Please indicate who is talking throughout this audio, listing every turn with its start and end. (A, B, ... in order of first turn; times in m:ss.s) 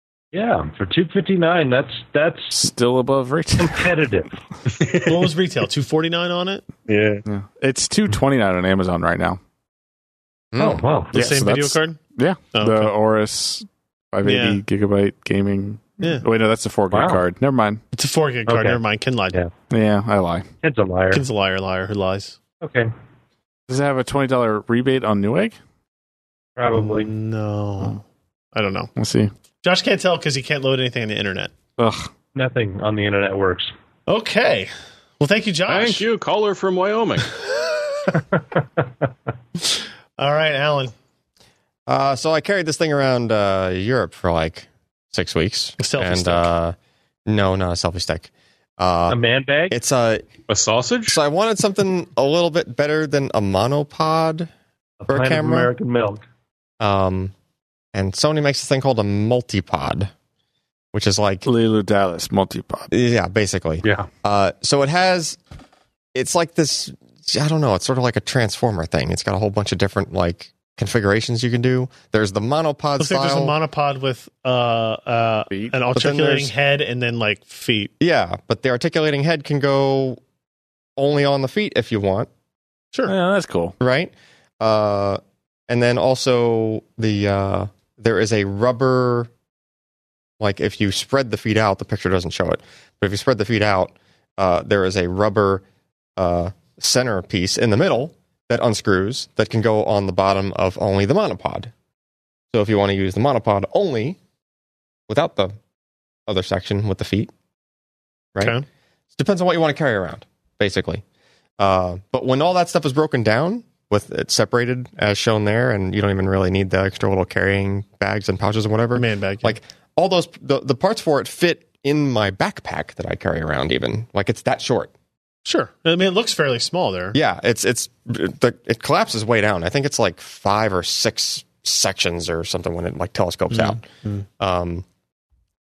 0:00.3-0:02.6 A
0:02.5-0:04.0 B
0:03.6-0:04.3 A
0:04.8-0:05.2 C
0:05.0-0:06.6 D
0:06.9-0:07.2 C
0:07.3-0:09.4 B
0:10.5-0:10.8 E
0:10.6-0:11.2 A
0:11.1-0:12.0 D
0:11.1-0:17.8 B
0:12.5-0:12.9 D
0:14.2-0:14.6 D
0:16.0-0:16.2 D
0:16.9-0:17.2 A
0:17.9-0:19.5 D
0:18.5-0:18.8 A
0:19.7-0:20.5 B
0:20.6-0:21.2 A
0:21.1-0:22.4 D
0:22.6-0:22.9 A
0:23.7-0:25.6 B
0:26.6-0:27.1 A
0:26.7-0:28.0 D
0:28.5-0:28.9 D
0:29.0-0:29.3 B
0:29.6-0:31.5 D
0:31.8-0:32.1 B
0:32.4-0:33.7 A
0:34.1-0:36.1 D
0:35.7-0:37.3 C
0:37.5-0:38.1 D
0:40.2-0:40.9 D
0:41.9-0:50.3 E
0:45.8-0:46.5 D
0:49.1-0:49.8 A
0:50.5-0:51.2 C
0:51.1-0:54.5 E
0:55.0-0:56.2 A
0:55.1-0:55.7 E
0:56.8-0:57.3 E
0:57.9-1:00.1 E
1:00.9-1:01.5 E
1:01.5-1:02.9 B
1:02.9-1:05.4 E
1:03.8-1:04.1 C
1:06.1-1:13.6 E
1:13.0-1:17.9 D
1:15.9-1:16.5 E
1:18.0-1:20.2 E
1:21.0-1:22.3 E
1:23.1-1:23.8 B
1:23.8-1:29.3 E
1:30.4-1:35.6 E
1:36.2-1:41.7 E
1:42.5-1:44.2 E
1:45.1-1:45.6 E
1:46.3-1:47.3 E
1:48.4-1:48.6 D
1:49.1-1:51.0 E
1:51.6-2:04.9 E
1:59.0-1:59.6 D
2:05.4-2:07.2 D
2:07.1-2:13.9 E
2:14.4-2:14.8 E